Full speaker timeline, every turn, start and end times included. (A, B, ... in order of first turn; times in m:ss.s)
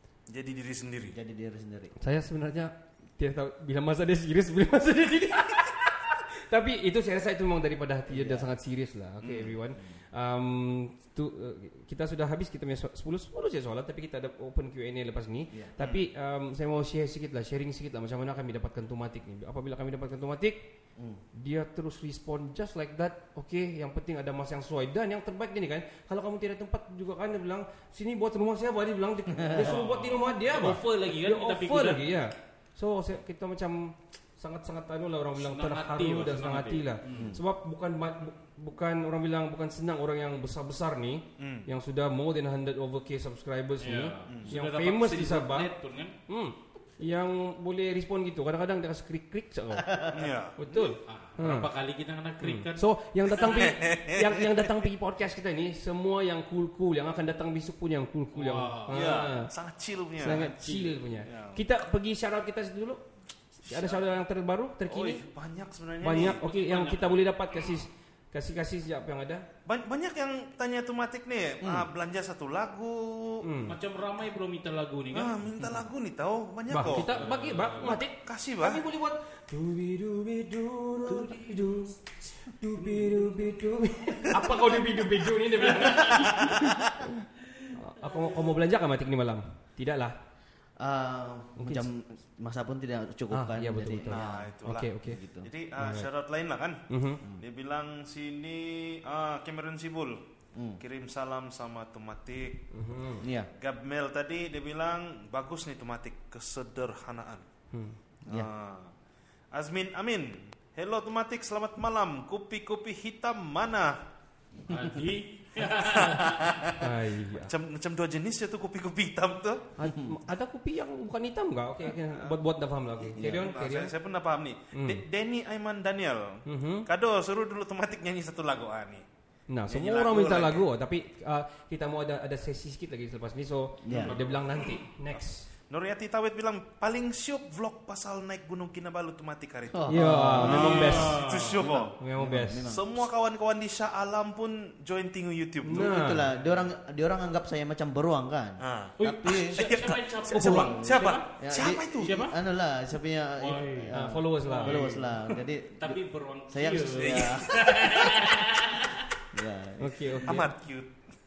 0:00.3-0:01.2 A
0:01.1-0:01.9 B
0:02.0-0:20.7 C
0:08.1-0:08.5 B
0:09.2-0:09.6 A
0:21.0-0:21.2 B
0:21.3-0:45.7 C
0:29.3-0:29.8 B
0:29.5-0:32.1 D
0:35.4-0:37.3 D
0:37.1-0:37.4 B
0:41.4-0:41.7 A
0:43.8-0:46.1 D
0:44.3-0:44.6 A
0:46.3-0:51.7 C
0:49.8-0:50.3 B
0:50.1-0:50.7 A
0:51.0-0:52.8 D
0:52.4-0:59.5 C
0:53.4-0:54.8 A
0:53.4-0:53.7 D
0:58.3-0:59.1 D
0:58.9-1:00.5 A
1:00.2-1:03.0 C
1:00.3-1:00.9 D
1:01.2-1:01.6 A
1:03.6-1:05.2 C
1:03.7-1:04.0 A
1:04.9-1:06.4 A
1:06.0-1:09.4 C
1:06.1-1:07.2 D
1:09.6-1:13.5 A
1:11.6-1:11.9 B
1:13.4-1:13.8 C
1:13.7-1:15.4 D
1:15.1-1:17.2 A
1:16.7-1:30.2 C
1:16.8-1:18.0 D
1:17.8-1:18.8 A
1:21.0-1:21.8 D
1:22.8-1:23.6 D
1:25.6-1:26.5 D
1:26.4-1:26.8 A
1:28.0-1:28.3 D
1:30.8-1:35.5 B
1:31.6-1:31.9 C
1:33.3-1:35.2 C
1:34.0-1:40.2 A
1:35.8-1:36.1 C
1:36.9-1:37.2 C
1:40.5-1:40.8 B
1:40.8-1:42.6 A
1:42.7-1:43.2 C
1:43.2-1:43.5 B
1:43.6-1:47.4 A
1:47.7-1:48.0 C
1:48.3-1:48.9 A
1:49.5-1:54.0 A
1:54.7-1:56.7 D
1:55.6-1:59.7 A
1:56.8-1:57.5 C
1:59.8-2:03.9 C
1:59.8-2:00.2 B
2:03.0-2:09.0 A
2:03.1-2:03.5 B
2:04.7-2:05.0 C
2:06.4-2:06.9 C
2:09.5-2:15.5 C
2:09.7-2:10.6 A
2:13.8-2:14.1 B
2:14.0-2:14.6 D
2:15.7-2:21.9 A
2:19.7-2:21.1 B
2:19.9-2:21.2 C
2:20.4-2:21.8 D
2:21.6-2:23.0 B
2:22.0-2:22.7 C
2:22.6-2:26.0 A
2:25.6-2:26.2 C
2:25.7-2:29.6 B
2:28.6-2:32.2 A
2:29.0-2:31.3 D
2:30.3-2:38.1 B
2:32.0-2:32.4 D
2:33.4-2:39.0 D
2:33.9-2:34.9 C
2:36.9-2:37.7 A
2:39.3-2:40.4 B
2:39.8-2:40.5 C
2:40.2-2:41.0 A